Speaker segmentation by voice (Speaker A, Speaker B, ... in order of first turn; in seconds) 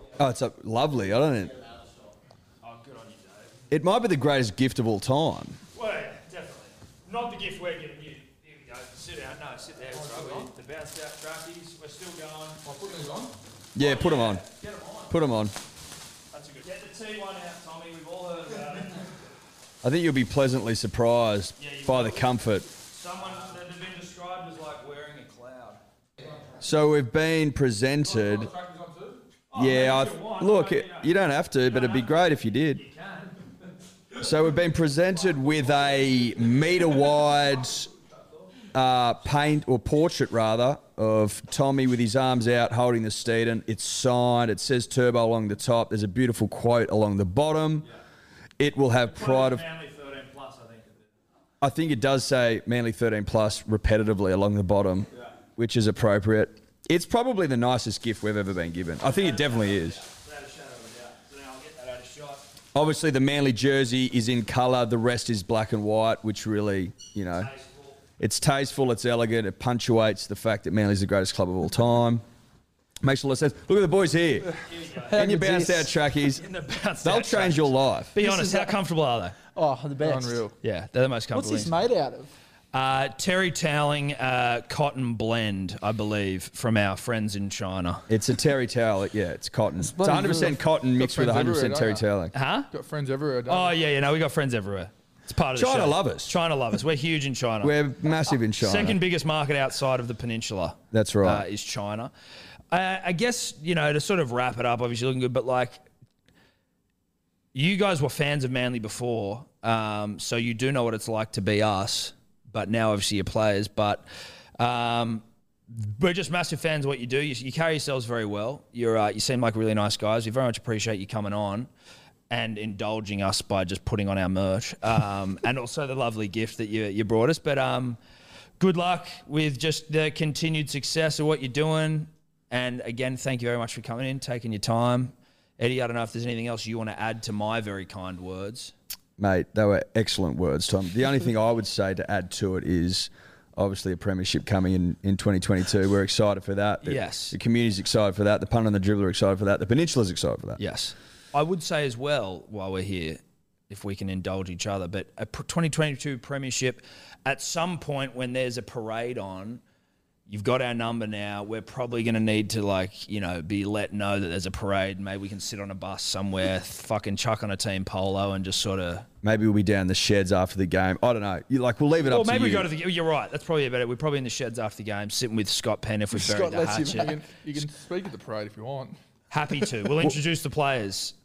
Speaker A: 0.2-1.6, 3.7-5.6, 13.7-14.4, 15.1-15.5, 19.8-22.7, 26.6-28.5, 29.5-32.8, 34.2-37.9, 38.7-47.9, 48.6-49.6, 51.6-60.0, 62.7-67.5, 68.2-72.2, 73.0-74.5, 75.1-76.4, 77.0-78.1, 88.1-92.3, 95.5-96.4, 97.6-99.0, 100.9-101.5, 139.2-150.6, 169.2-172.7
Speaker B: 2.6-3.5, 5.7-12.6, 13.8-15.1, 16.3-19.1, 21.6-22.3, 22.9-25.8, 29.5-33.4, 49.0-51.1, 59.0-62.4, 67.4-68.0, 74.7-75.2, 76.2-79.3, 80.6-81.7, 82.7-88.1, 92.3-92.7, 93.5-97.8, 98.5-102.1, 102.7-105.8, 107.5-114.0, 114.6-121.7, 122.3-128.0, 128.6-138.7, 146.8-147.3, 150.6-159.6, 160.3-169.1, 172.0-177.2, 179.3-181.1
Speaker C: 9.9-10.5, 12.6-13.3, 28.0-29.2, 80.0-80.5, 90.8-92.1, 92.7-93.8, 176.8-179.0
Speaker D: 74.9-75.9, 78.2-78.7, 79.5-80.5, 81.3-82.3, 89.8-90.6, 176.2-177.2